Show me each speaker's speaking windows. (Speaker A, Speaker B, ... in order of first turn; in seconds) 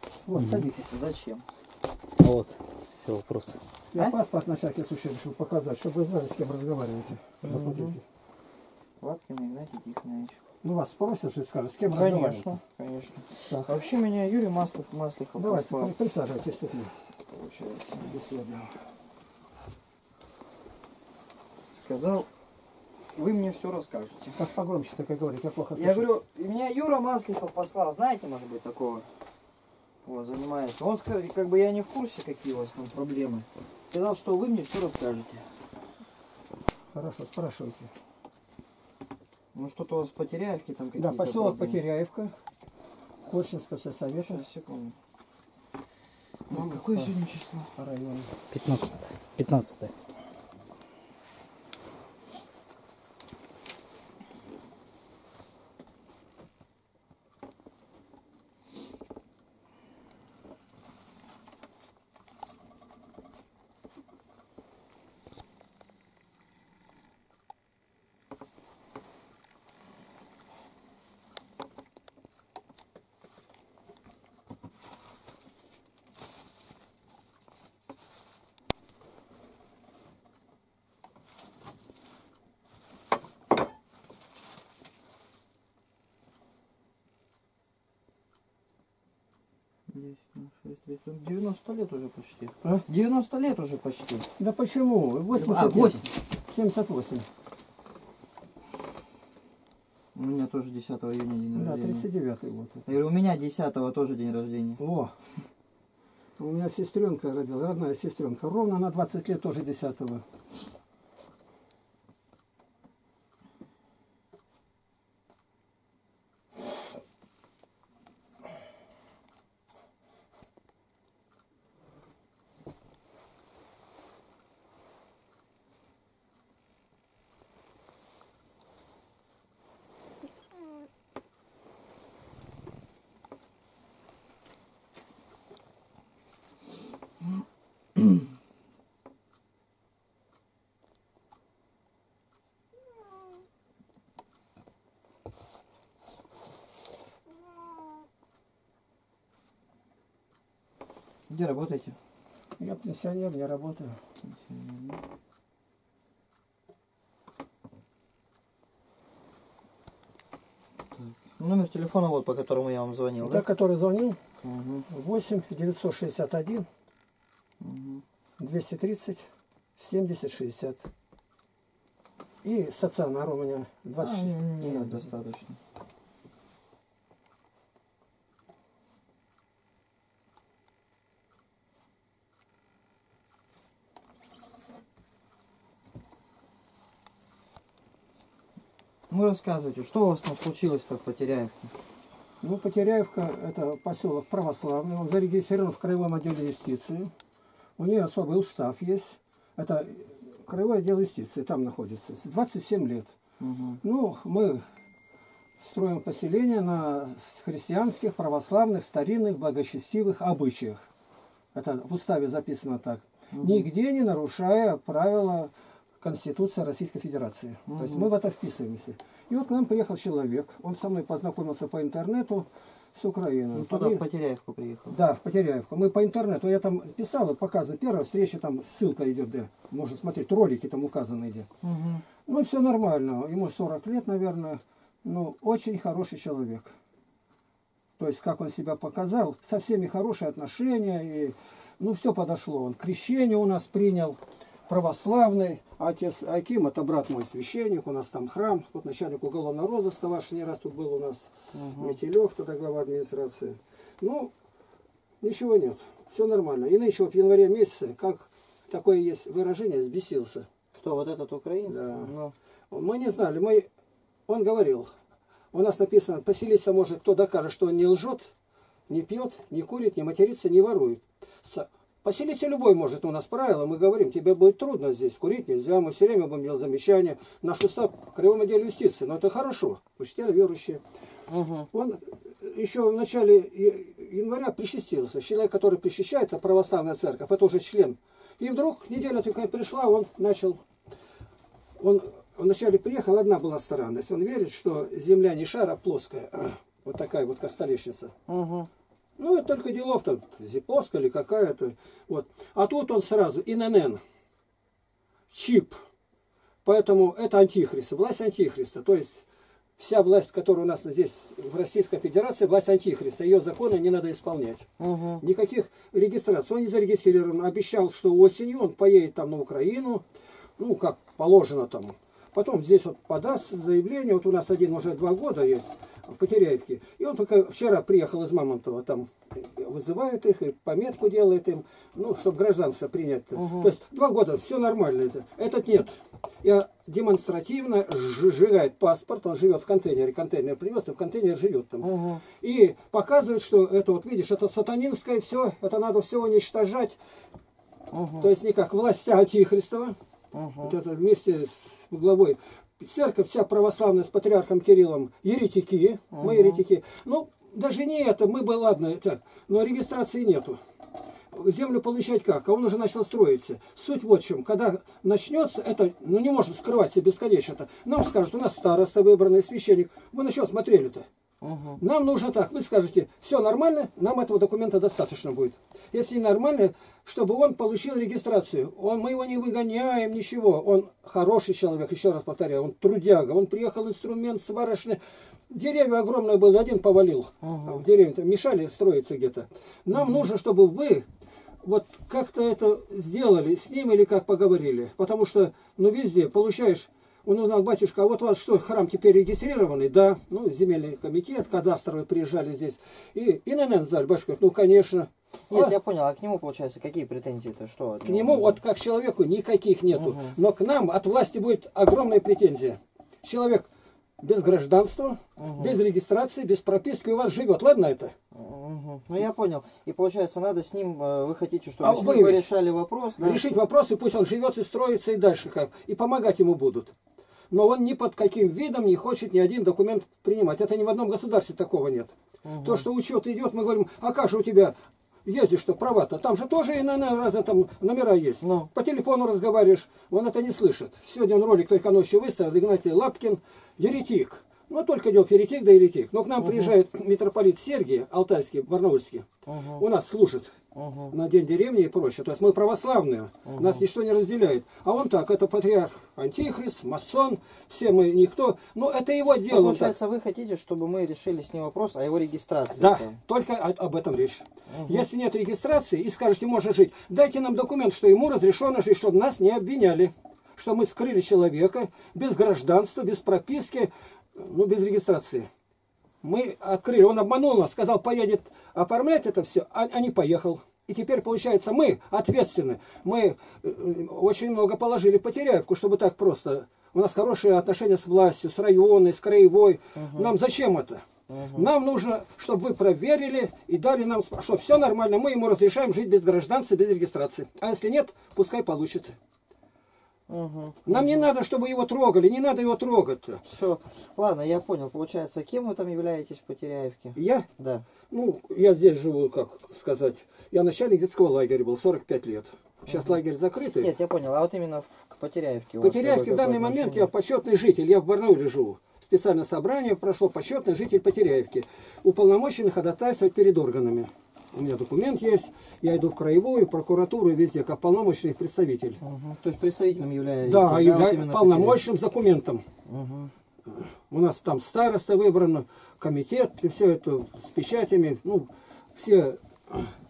Speaker A: 0.3-0.9, 3.9-8.0, 10.6-12.5, 13.5-13.7, 15.4-16.9, 18.0-18.8, 24.4-26.1, 36.9-37.9, 41.0-42.3, 43.3-44.4, 46.5-47.1, 47.8-48.3, 94.4-97.3, 101.5-102.8, 104.8-105.1, 106.4-110.2, 152.6-154.0, 163.2-164.2, 164.9-166.7, 168.4-170.9, 172.4-175.0, 192.4-197.1, 197.8-203.1, 203.8-204.7, 205.6-210.9, 211.5-224.0, 224.9-231.5, 232.3-236.7, 238.0-254.3, 255.2-260.5, 261.7-262.1, 262.7-263.7, 264.3-264.9, 265.5-268.3, 268.9-280.8, 281.7-290.6, 291.8-298.1, 299.2-304.0, 305.3-305.8, 306.6-309.2, 309.8-314.7, 315.2-320.1, 320.6-347.0, 348.2-350.0, 350.6-360.6, 361.3-371.1, 371.8-391.1, 391.6-405.8, 408.0-413.7, 414.2-418.1, 421.8-422.5, 423.2-426.9, 427.5-450.6, 451.1-460.0, 462.8-475.5, 476.2-499.2, 500.9-503.4, 507.2-507.5, 508.1-513.9, 515.8-529.0, 530.5-532.6, 533.7-540.0
Speaker B: 0.4-0.7, 2.2-3.6, 48.5-49.9
Speaker C: 0.8-1.4, 7.4-8.0, 9.0-10.4, 11.9-15.9, 17.3-18.1, 21.8-22.3, 23.1-24.4, 25.8-29.1, 30.1-35.5, 39.5-41.8, 44.2-45.0, 46.5-47.7, 89.9-94.3, 95.3-96.1, 100.2-102.1, 102.9-104.8, 151.3-152.0, 154.2-155.0, 161.0-163.4, 164.4-164.9, 167.6-168.0, 174.0-175.6, 189.1-191.7, 203.4-203.8, 213.3-213.7, 217.7-218.1, 223.5-225.0, 231.6-232.1, 251.5-252.0, 260.8-262.3, 281.3-281.7, 298.3-298.7, 314.8-315.2, 333.4-333.7, 341.8-342.2, 347.9-348.3, 350.3-350.8, 356.1-356.6, 371.4-371.8, 387.4-387.8, 405.5-408.6, 409.9-410.4, 415.4-415.8, 418.3-423.6, 432.4-432.9, 438.4-438.7, 446.4-446.7, 449.5-449.9, 450.7-451.1, 453.4-453.8, 459.5-463.2, 464.7-465.1, 489.9-490.3, 491.3-491.7, 500.3-501.3, 503.5-507.9, 513.8-517.1, 529.0-531.8, 532.9-533.3